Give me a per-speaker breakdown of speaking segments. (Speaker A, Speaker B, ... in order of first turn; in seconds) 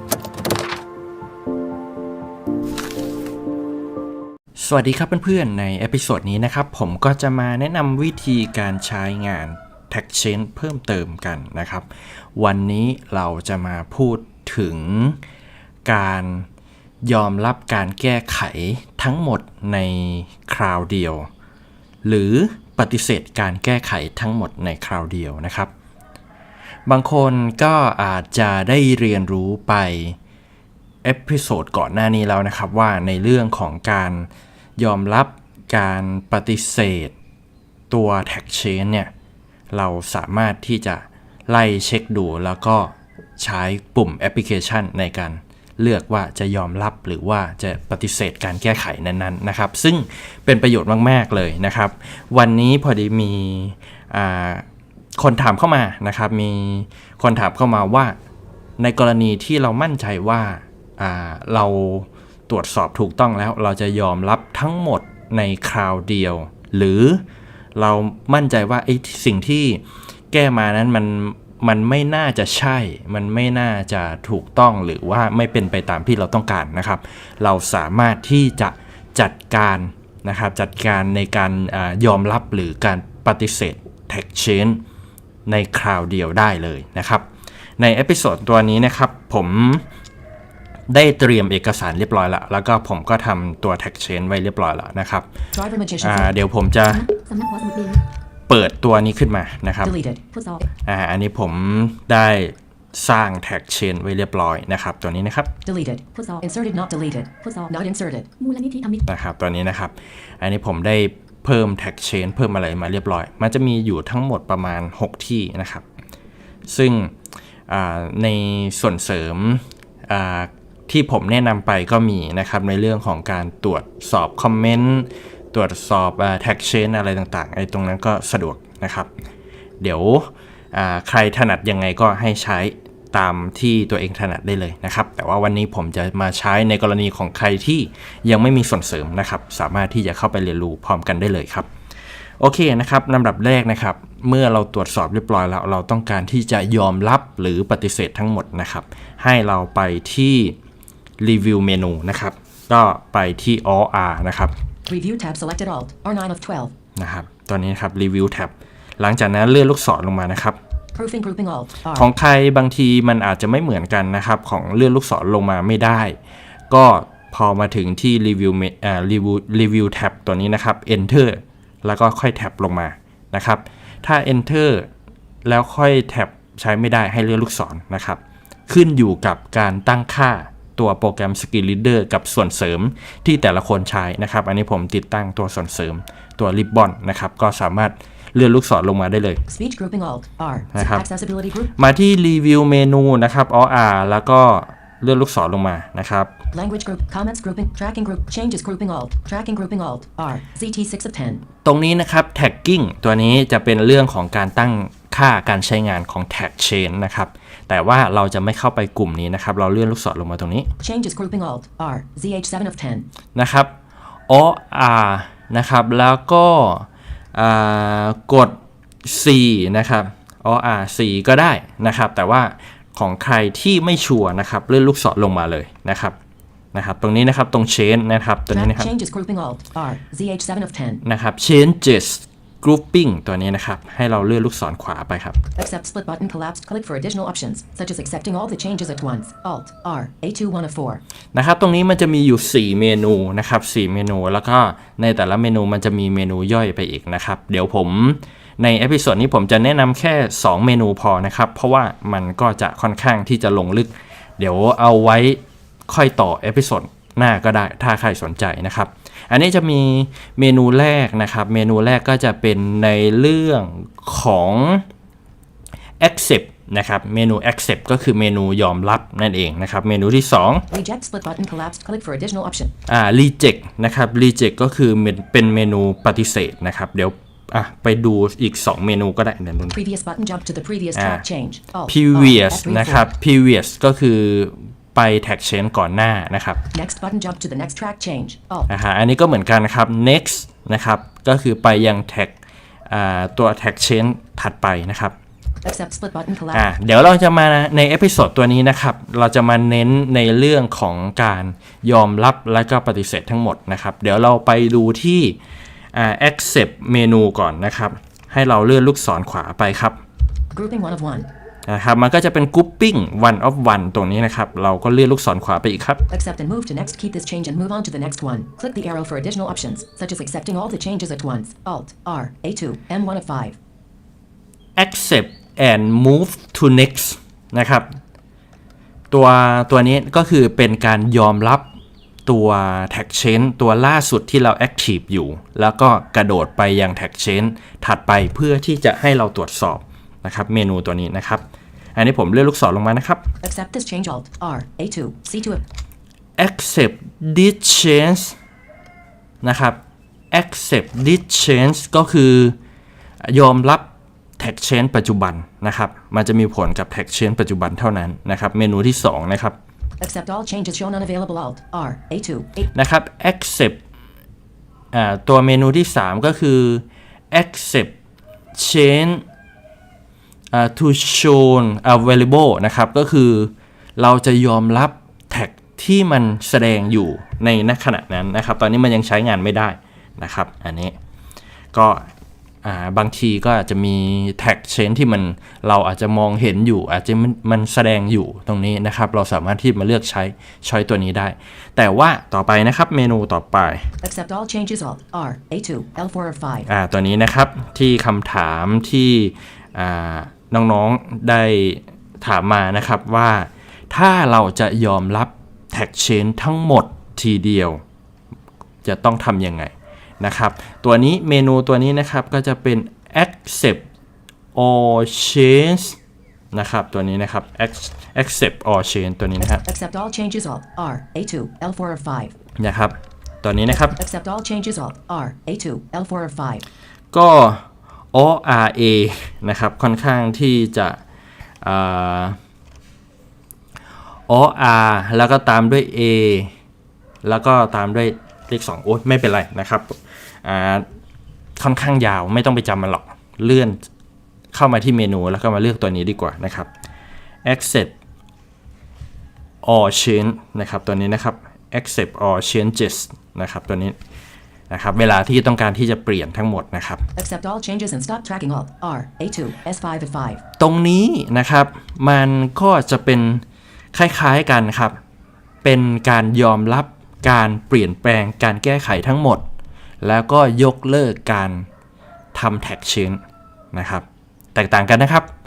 Speaker A: 4.5-15.2, 15.8-16.5, 17.0-21.3, 22.0-25.7, 26.9-30.2, 31.0-37.1, 37.9-39.1, 39.7-54.6, 55.2-58.2, 58.8-67.2, 67.8-84.8, 85.5-87.2, 87.8-89.8, 90.9-95.2, 96.0-97.0, 98.5-100.0, 100.8-105.5, 109.0-115.8, 116.7-117.1, 117.7-129.1, 129.8-141.7, 142.4-150.6, 151.2-154.5, 156.9-160.6, 161.9-166.2, 166.7-174.9, 175.4-189.4, 190.7-191.1, 191.7-196.3, 201.6-210.7, 213.3-213.7, 214.3-226.2, 226.7-228.9, 231.0-235.4, 241.3-264.9, 266.0-270.6, 272.9-279.8, 280.9-281.2, 281.9-286.6, 288.7-292.3, 292.9-295.1, 296.5-305.4, 305.9-310.0, 311.7-316.0, 324.8-327.9, 329.1-331.7, 332.2-341.4, 341.9-343.2, 346.4-348.4, 349.4-349.8, 350.3-352.6, 353.2-359.6, 362.7-363.8, 364.9-367.9, 368.5-369.2, 370.5-380.9, 381.7-382.1, 382.6-393.9, 396.7-407.8, 408.8-413.8, 414.5-416.0, 416.5-419.6, 422.6-424.0, 427.1-431.0, 431.6-432.4, 434.3-436.5, 437.2-440.8, 441.6-443.9, 444.5-446.7, 447.4-447.9, 449.6-453.9, 454.7-457.0, 460.6-465.0, 465.6-469.4, 470.0-471.7, 472.3-473.2, 473.7-475.3
Speaker B: 95.5-96.3, 99.8-100.2, 105.6-108.3, 154.9-156.7, 160.9-162.1, 189.5-191.7, 196.5-201.4, 210.8-213.1, 228.5-231.0, 235.6-241.0, 270.7-272.7, 279.7-283.1, 286.7-288.7, 295.6-296.6, 310.5-311.3, 316.1-323.6, 343.4-345.6, 360.0-362.7, 394.0-396.7, 419.6-422.3, 423.7-426.6, 457.1-460.4
Speaker C: 96.9-98.0, 100.3-100.6, 106.1-106.4, 107.4-107.7, 108.4-109.0